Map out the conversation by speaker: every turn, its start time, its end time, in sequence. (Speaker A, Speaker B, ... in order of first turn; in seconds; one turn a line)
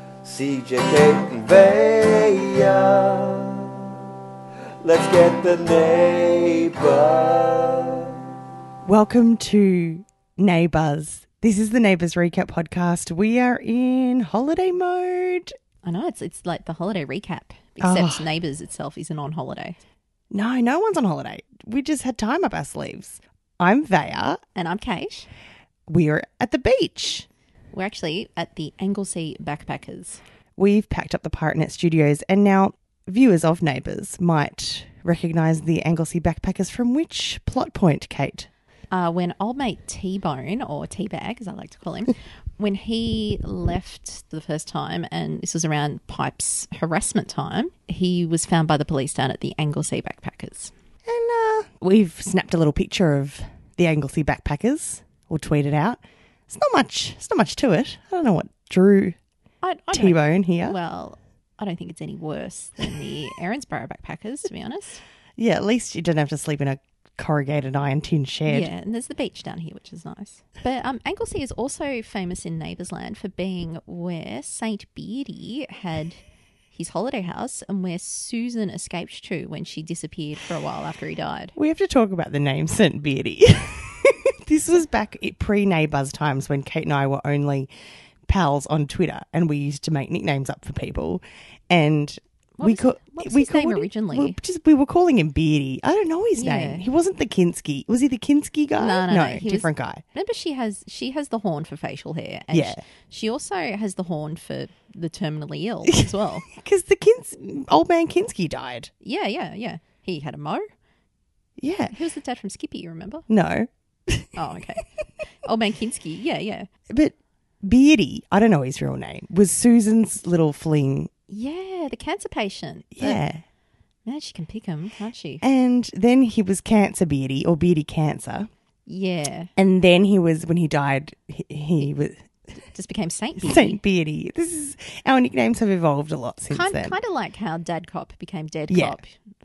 Speaker A: 0.2-3.7
Speaker A: 4.8-8.2
Speaker B: 8.8-15.5
Speaker C: 15.8-19.8
Speaker B: 17.8-18.3
Speaker B: 20.3-24.4
Speaker C: 24.6-25.3
Speaker B: 25.9-27.3
Speaker C: 27.7-30.2
Speaker B: 30.6-38.5
Speaker C: 38.9-50.7
Speaker B: 51.0-59.2
Speaker C: 59.6-65.0
Speaker B: 59.9-60.8
Speaker B: 65.4-68.7
Speaker C: 68.5-76.2
Speaker C: 76.7-81.5
Speaker B: 81.5-87.7
Speaker B: 88.2-100.0
Speaker C: 92.6-94.4
Speaker C: 96.3-96.8
Speaker C: 98.8-106.5
Speaker B: 102.5-102.8
Speaker B: 105.9-108.9
Speaker C: 109.0-110.7
Speaker B: 111.6-111.9
Speaker C: 111.9-113.2
Speaker B: 113.3-114.8
Speaker C: 114.3-116.7
Speaker B: 116.9-121.1
Speaker C: 121.3-123.2
Speaker B: 122.9-123.4
Speaker C: 124.0-125.4
Speaker B: 125.4-128.5
Speaker C: 128.9-129.5
Speaker B: 129.6-132.2
Speaker C: 132.7-133.8
Speaker B: 133.4-137.0
Speaker C: 136.5-139.2
Speaker B: 138.7-139.0